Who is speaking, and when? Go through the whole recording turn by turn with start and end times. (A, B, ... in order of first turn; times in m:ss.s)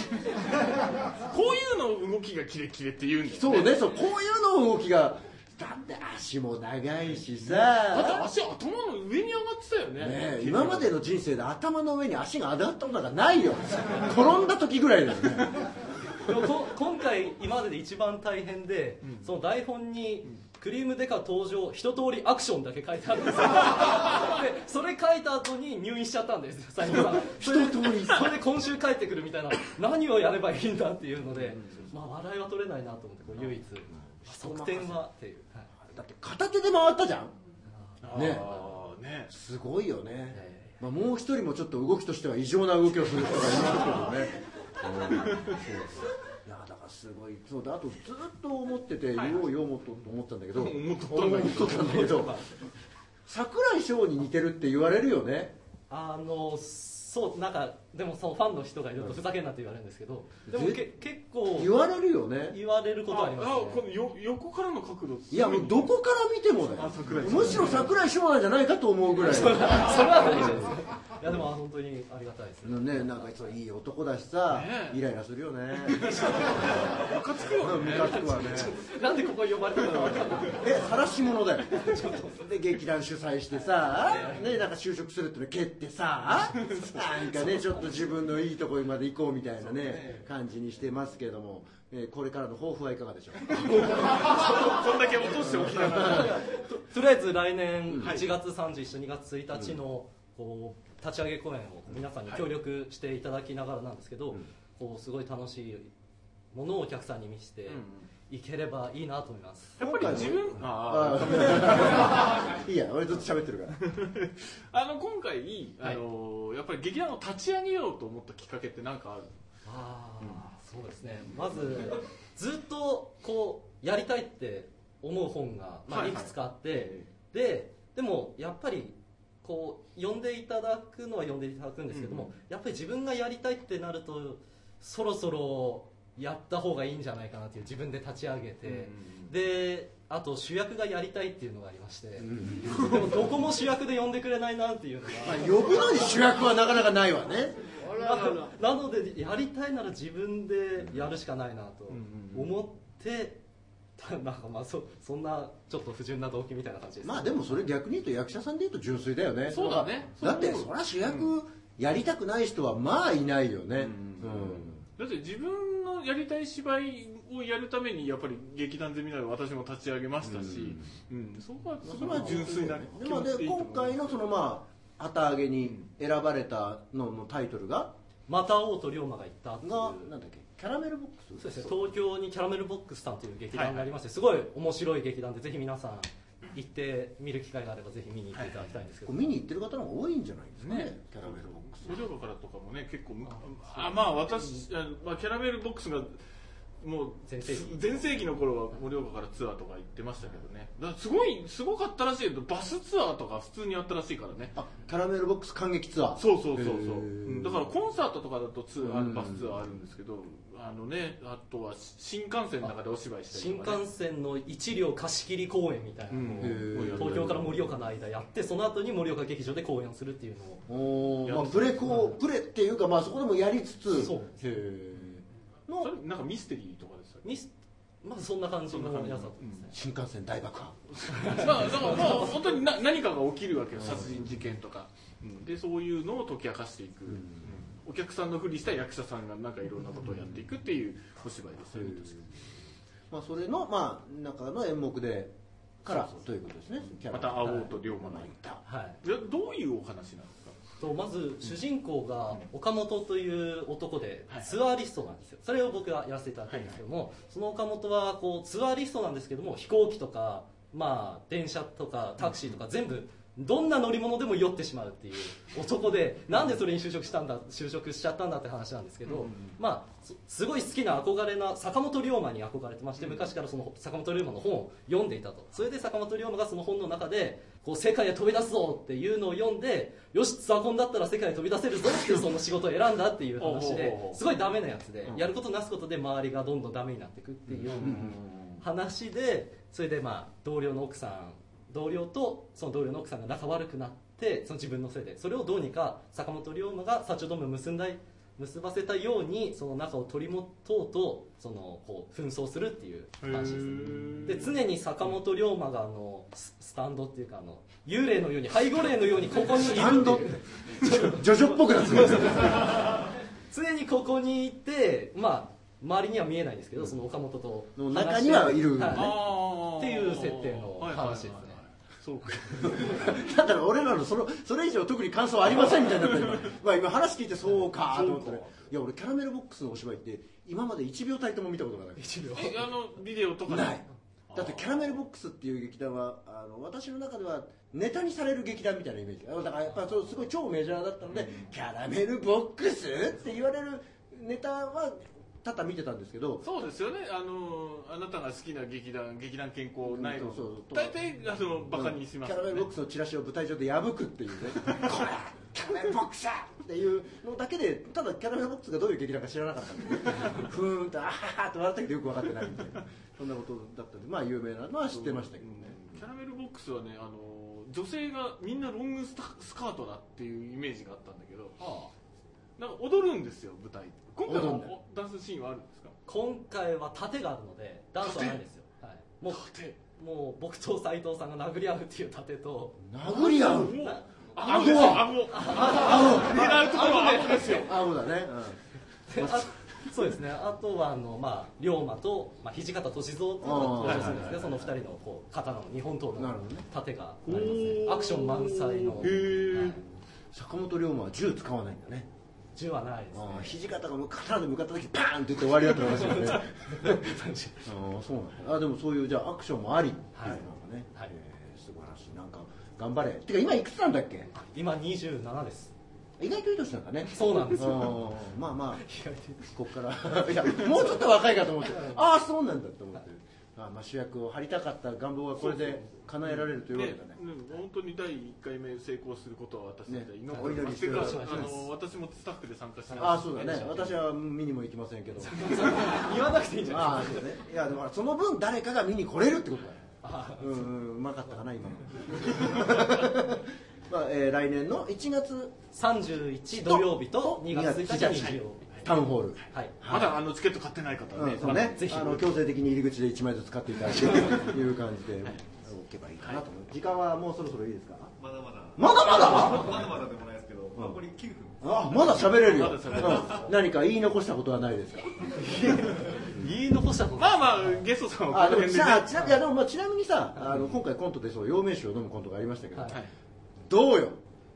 0:01.2-0:03.8 A
0:03.3-0:08.3 B
0:07.4-0:11.0 A
0:10.0-0:15.7 B
0:16.2-0:35.7 C
0:19.0-0:19.3 A
0:27.1-0:28.3 B
0:31.4-0:31.9 A
0:34.2-0:35.1 B
0:35.8-0:37.3 B
0:38.0-0:39.3 A
0:38.1-0:38.5 B
0:38.2-0:38.6 C
0:39.3-0:52.4 B
0:40.3-0:40.7 C
0:45.2-0:45.6 A
0:49.2-0:49.5 A
0:50.5-0:52.4 A
0:53.3-0:55.5 B
0:55.9-1:01.8 C
1:00.5-1:00.8 B
1:01.5-1:02.6 B
1:02.5-1:03.8 C
1:03.1-1:05.9 A
1:05.3-1:10.8 B
1:06.8-1:07.9 A
1:09.2-1:13.5 C
1:12.6-1:16.9 B
1:14.5-1:15.0 A
1:15.9-1:18.7 A
1:16.1-1:16.9 C
1:17.6-1:18.8 B
1:18.0-1:20.7 C
1:19.9-1:20.3 A
1:20.6-1:34.0 B
1:21.7-1:22.4 C
1:23.9-1:24.5 C
1:26.3-1:27.8 A
1:29.6-1:30.3 A
1:33.5-1:36.4 A
1:35.4-1:36.3 B
1:35.8-1:45.9 C
1:37.9-1:38.2 B
1:38.0-1:38.3 A
1:46.5-1:49.8 C
1:47.7-1:48.1 A
1:49.8-1:52.4 A
1:49.8-1:53.8 B
1:53.8-1:59.4 A
1:59.7-2:25.7 C
2:05.9-2:07.1 A
2:11.9-2:12.3 A
2:18.6-2:19.3 A
2:22.2-2:23.0 B
2:25.2-2:27.6 B
2:27.8-2:33.4 C
2:31.9-2:32.5 A
2:34.0-2:37.6 C
2:37.0-2:44.8 B
2:39.5-2:41.3 A
2:43.8-2:54.2 A
2:50.2-2:50.9 B
2:51.8-2:57.9 B
2:58.3-3:00.1 C
2:59.6-3:01.8 B
3:01.4-3:09.3 C
3:03.5-3:03.9 A
3:08.3-3:08.7 A
3:09.0-3:12.0 B
3:10.6-3:16.2 A
3:13.3-3:14.6 C
3:16.8-3:24.6 A
3:17.3-3:18.0 C
3:24.6-3:27.7 B
3:26.2-3:33.8 A
3:28.8-3:29.6 B
3:33.3-3:40.6 C
3:36.1-3:37.4 A
3:36.4-3:37.5 B
3:40.7-3:45.9 B
3:41.3-3:42.2 A
3:43.9-3:44.3 C
3:45.7-3:47.3 A
3:47.2-3:47.5 C
3:48.0-3:49.7 C
3:48.7-3:49.7 A
3:49.7-3:51.0 B
3:51.1-3:52.5 C
3:51.1-4:02.2 A
3:53.8-3:54.2 B
3:57.1-3:57.6 B
4:01.7-4:02.3 B
4:03.1-4:08.6 B
4:07.0-4:08.4 A
4:07.4-4:07.7 C
4:08.7-4:09.0 C
4:09.0-4:10.6 A
4:10.8-5:19.2 C
4:16.5-4:16.8 A
4:22.2-4:22.6 A
4:29.0-4:29.6 A
4:33.0-4:33.3 A
4:43.4-4:44.3 A
4:47.5-4:48.6 A
4:47.8-4:48.2 B
5:03.2-5:04.6 A
5:09.5-5:12.7 B
5:17.8-5:19.2 B
5:18.9-5:23.0 A
5:19.8-5:21.6 C
5:22.6-5:32.7 B
5:25.8-5:26.5 A
5:27.8-5:28.6 A
5:32.0-5:32.6 C
5:32.3-5:35.0 A
5:33.5-5:46.4 B
5:41.1-5:41.4 A
5:46.4-5:52.7 A
5:49.9-5:51.0 B
5:51.7-6:05.8 B
6:04.9-6:11.6 A
6:11.6-6:11.9 C
6:12.6-6:16.0 A
6:14.3-6:14.7 B
6:16.1-6:19.4 C
6:18.0-6:18.4 A
6:19.3-6:19.8 A
6:20.0-6:22.8 C
6:22.8-6:23.8 B
6:23.0-6:27.8 A
6:23.7-6:27.7 C
6:24.4-6:28.6 B
6:29.1-6:39.8 C
6:29.1-6:29.5 B
6:33.4-6:34.7 B
6:33.8-6:34.3 A
6:36.2-6:36.7 B
6:37.2-6:39.8 A
6:40.3-6:42.1 B
6:42.6-6:43.6 C
6:43.1-6:47.1 B
6:45.9-6:47.7 C
6:47.6-6:54.3 B
6:50.2-6:50.4 C
6:54.3-6:55.7 C
6:56.2-6:58.9 B
6:57.1-6:58.0 C
6:58.8-6:59.6 C
6:59.5-7:07.2 B
7:01.6-7:02.1 C
7:05.4-7:14.0 A
7:09.9-7:11.5 B
7:10.3-7:11.7 C
7:13.0-7:15.8 B
7:15.2-7:17.3 C
7:16.6-7:19.8 B
7:20.0-7:20.7 C
7:20.4-7:25.6 B
7:25.7-7:28.6 C
7:26.5-7:30.2 B
7:29.8-7:32.3 A
7:31.1-7:38.1 B
7:31.4-7:32.2 C
7:34.1-7:34.6 A
7:38.2-7:42.1 D
7:38.8-7:39.8 B
7:40.8-7:41.0 B
7:41.6-7:45.4 B
7:42.0-7:43.5 A
7:45.4-7:47.8 C
7:47.2-7:49.2 A
7:48.3-7:53.0 B
7:53.7-7:54.2 B